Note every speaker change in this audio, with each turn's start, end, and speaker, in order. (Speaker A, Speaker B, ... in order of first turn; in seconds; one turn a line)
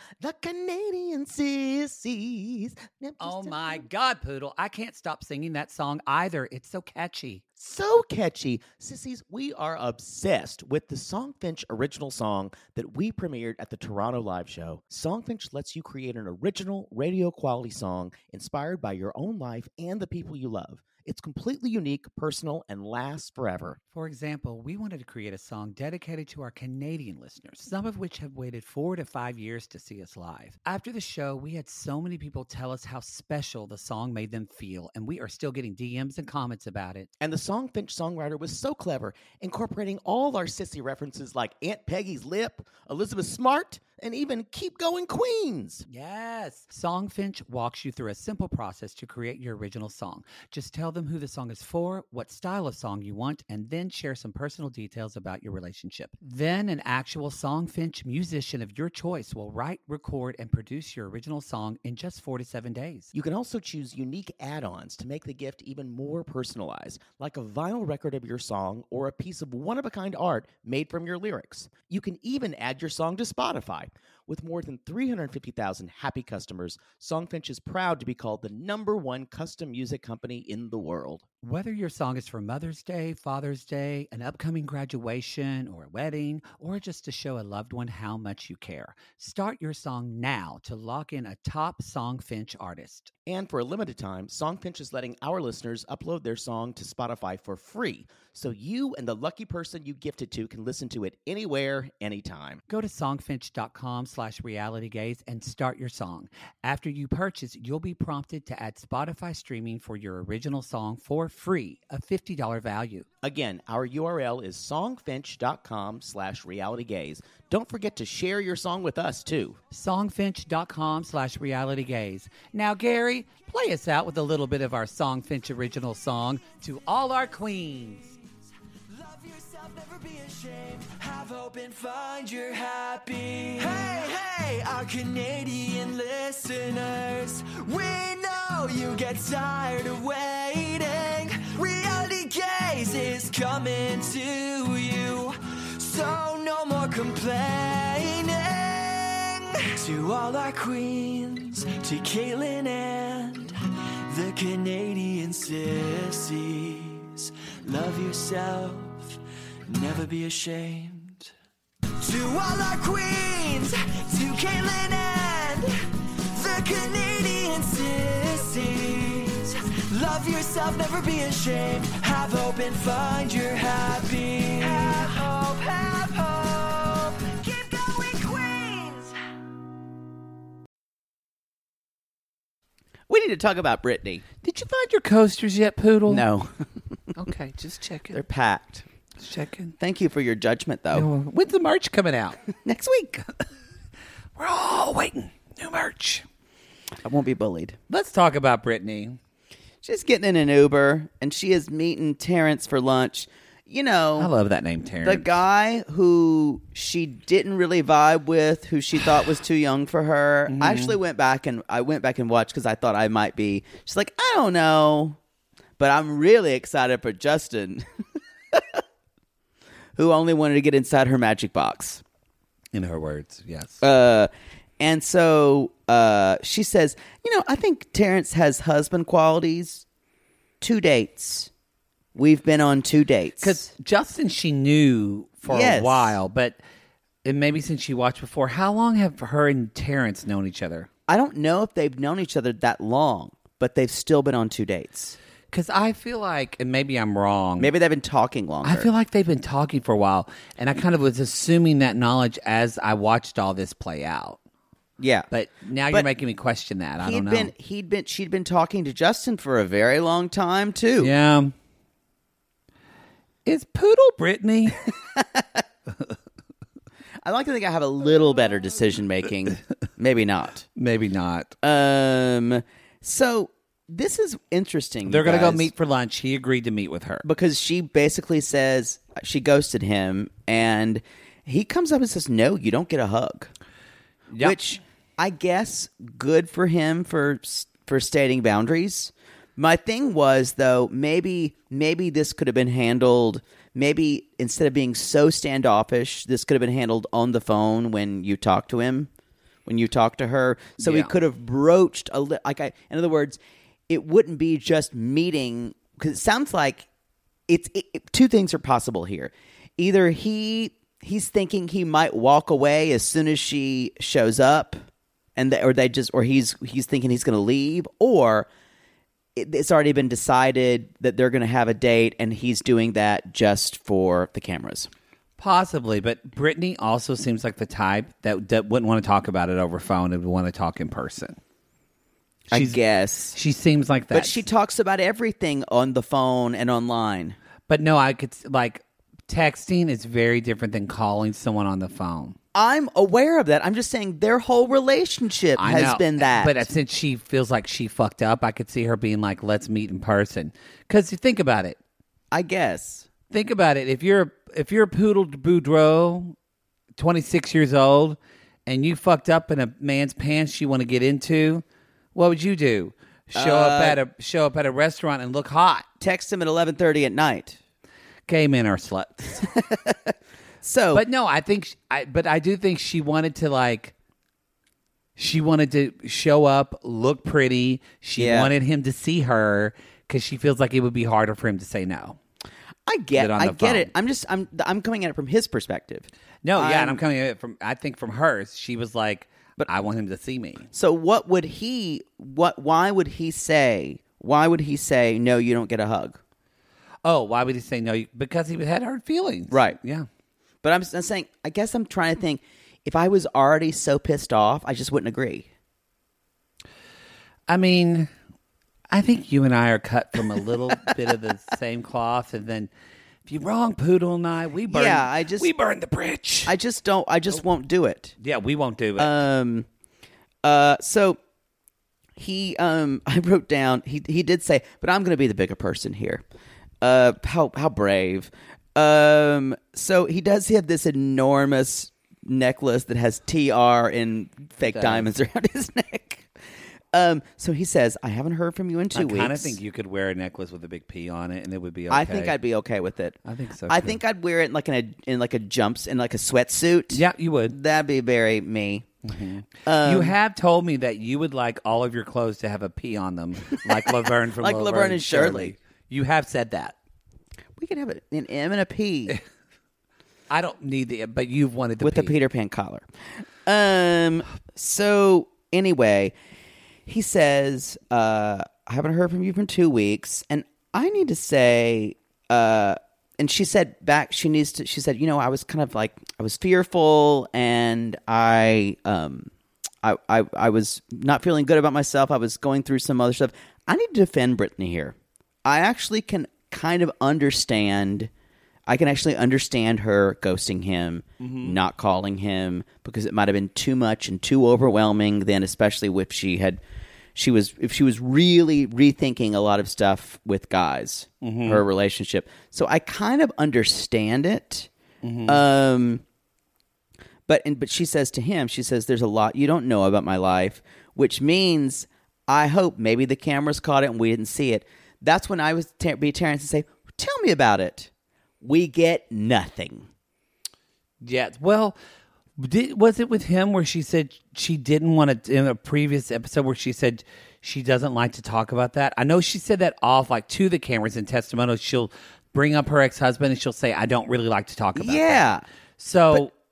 Speaker A: 0.2-3.8
Speaker B: 3.2-7.4
Speaker A: 7.6-23.8
Speaker B: 23.9-37.1
Speaker A: 37.2-45.8
Speaker B: 45.9-63.1
Speaker A: 63.1-81.2
Speaker B: 81.4-93.1
Speaker A: 93.2-102.6
Speaker B: 102.7-113.0
Speaker A: 113.2-119.6
Speaker B: 119.7-128.1
Speaker C: 128.9-153.5
Speaker C: 154.1-161.3
Speaker C: 162.0-165.7
Speaker C: 166.3-179.1
Speaker A: 183.1-184.2
Speaker B: 184.4-186.2
Speaker A: 186.1-186.7
Speaker B: 187.2-188.2
Speaker A: 188.1-188.8
Speaker B: 189.2-189.7
Speaker A: 189.8-191.1
Speaker B: 190.9-192.4
Speaker A: 192.6-193.2
Speaker B: 194.3-196.2
Speaker A: 197.0-197.8
Speaker B: 197.9-199.2
Speaker A: 199.8-204.3
Speaker B: 204.2-205.3
Speaker A: 205.0-215.2
Speaker B: 210.5-211.0
Speaker A: 215.8-217.9
Speaker A: 218.5-218.8
Speaker A: 219.9-222.0
Speaker B: 222.7-223.8
Speaker A: 223.8-229.8
Speaker A: 230.6-231.5
Speaker A: 232.1-233.6
Speaker B: 233.4-236.6
Speaker A: 235.4-236.2
Speaker B: 237.2-240.9
Speaker A: 241.1-245.2
Speaker B: 245.5-247.7
Speaker A: 247.6-248.9
Speaker B: 248.6-254.4
Speaker A: 255.0-255.3
Speaker B: 255.3-257.5
Speaker A: 257.0-261.1
Speaker B: 261.0-261.5
Speaker B: 263.4-264.9
Speaker A: 265.1-265.6
Speaker A: 267.2-270.6
Speaker B: 270.8-271.5
Speaker A: 271.6-275.7
Speaker B: 275.1-277.2
Speaker A: 277.2-283.5
Speaker B: 284.3-284.6
Speaker A: 284.4-299.1
Speaker A: 299.6-306.9
Speaker B: 300.8-301.1
Speaker A: 307.5-314.8
Speaker A: 315.4-318.5
Speaker A: 319.4-324.9
Speaker B: 325.4-331.4
Speaker A: 332.5-333.4
Speaker B: 332.5-332.8
Speaker B: 333.3-334.4
Speaker A: 334.1-337.4
Speaker B: 337.7-342.4
Speaker A: 342.5-346.7
Speaker B: 345.6-351.8
Speaker A: 352.3-353.1
Speaker B: 353.3-356.3
Speaker B: 357.0-361.6
Speaker B: 362.1-365.9
Speaker A: 363.3-364.0
Speaker A: 366.0-367.6
Speaker B: 368.3-369.4
Speaker A: 369.4-371.0
Speaker B: 370.9-373.9
Speaker B: 375.2-382.2
Speaker A: 378.2-378.5
Speaker A: 382.9-387.0
Speaker B: 383.1-383.9
Speaker B: 386.4-390.7
Speaker A: 390.7-396.2
Speaker B: 397.0-400.1
Speaker A: 399.5-399.8
Speaker A: 400.6-405.5
Speaker B: 407.5-408.1
Speaker B: 408.9-412.7
Speaker B: 413.2-416.5
Speaker A: 414.7-415.5
Speaker A: 416.4-418.1
Speaker B: 418.2-419.2
Speaker A: 419.0-419.7
Speaker A: 420.4-421.2
Speaker A: 422.2-426.2
Speaker A: 426.8-436.3
Speaker B: 434.6-435.1
Speaker A: 436.9-439.6
Speaker B: 438.9-442.4
Speaker A: 441.9-448.9
Speaker B: 443.2-444.0
Speaker B: 446.9-447.6
Speaker B: 449.1-456.7
Speaker A: 449.6-450.1
Speaker A: 454.4-455.5
Speaker A: 457.6-459.2
Speaker B: 460.3-462.1
Speaker A: 461.8-462.9
Speaker A: 463.4-466.1
Speaker A: 466.9-479.3
Speaker A: 479.8-488.1
Speaker A: 488.7-496.6
Speaker B: 491.2-491.6
Speaker A: 497.1-504.7
Speaker B: 501.2-501.6
Speaker B: 505.0-505.4
Speaker A: 505.2-506.0
Speaker A: 507.3-517.9
Speaker A: 518.4-519.9
Speaker B: 521.0-521.8
Speaker B: 522.4-535.2
Speaker A: 534.8-535.4
Speaker B: 535.8-536.3